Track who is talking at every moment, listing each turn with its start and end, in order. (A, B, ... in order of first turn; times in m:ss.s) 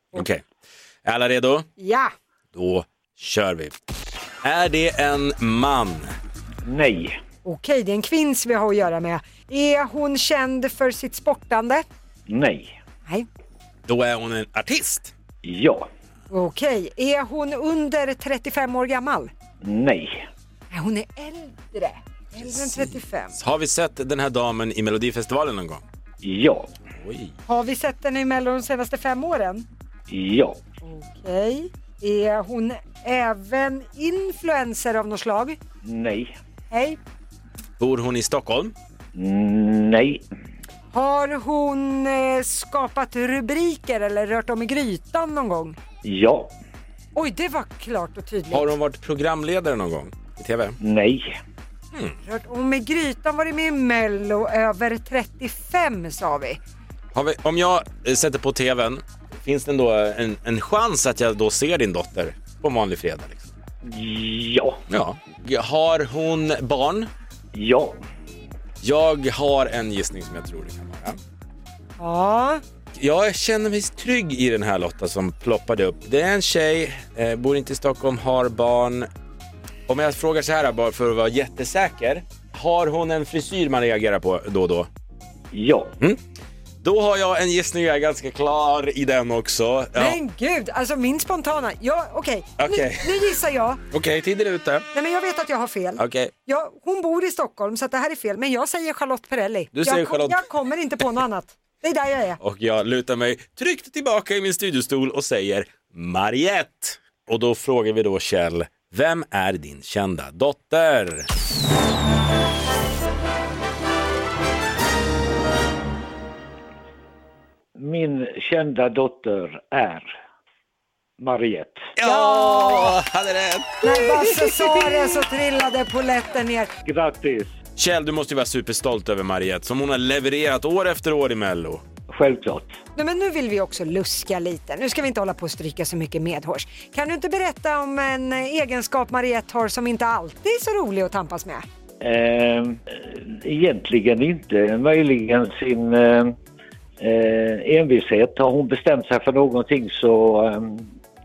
0:00.1-0:00.4 A
0:01.0-0:01.7 A
0:01.8-0:02.1 B
0:02.6-0:03.8 A
0:04.4-0:06.2 A
0:06.6-0:07.2 C
0:07.4-0:11.8 B
0:12.3-0:12.7 C
0:13.9-0:15.1 A
0:15.4-0:15.9 C
0:16.3-0:19.3 B
0:19.6-0:20.3 C
0:20.7-0:23.4 B
0:22.4-0:25.8 A
0:26.2-0:26.7 C
0:27.0-0:27.3 A
0:27.5-0:29.7 B
0:30.1-0:30.6 C
0:30.8-0:35.6 B
0:35.8-0:36.3 C
0:36.7-0:37.0 B
0:37.8-0:38.7 A
0:39.2-0:40.2 C
0:40.9-0:45.8 B
0:46.0-0:46.5 C
0:47.2-0:48.8 B
0:48.5-0:50.8 A
0:50.8-0:51.4 C
0:52.2-0:56.6 B
0:57.1-1:03.5 A
1:03.8-1:04.8 C
1:04.9-1:07.1 A
1:07.5-1:08.0 C
1:08.8-1:11.2 A
1:12.0-1:12.6 B
1:13.0-1:19.1 A
1:19.9-1:24.9 A
1:25.5-1:25.9 C
1:26.8-1:30.2 A
1:30.0-1:33.8 B
1:32.6-1:33.1 A
1:33.9-1:34.9 A
1:34.9-1:42.4 B
1:36.0-1:36.3 A
1:39.7-1:40.4 A
1:42.4-1:51.3 A
1:57.8-2:00.1 C
2:01.2-2:01.9 C
2:02.0-2:04.0 A
2:02.0-2:03.0 B
2:03.8-2:06.7 B
2:06.8-2:07.6 C
2:07.8-2:11.8 A
2:12.1-2:12.8 C
2:13.0-2:21.6 B
2:22.0-2:26.3 C
2:27.0-2:30.9 C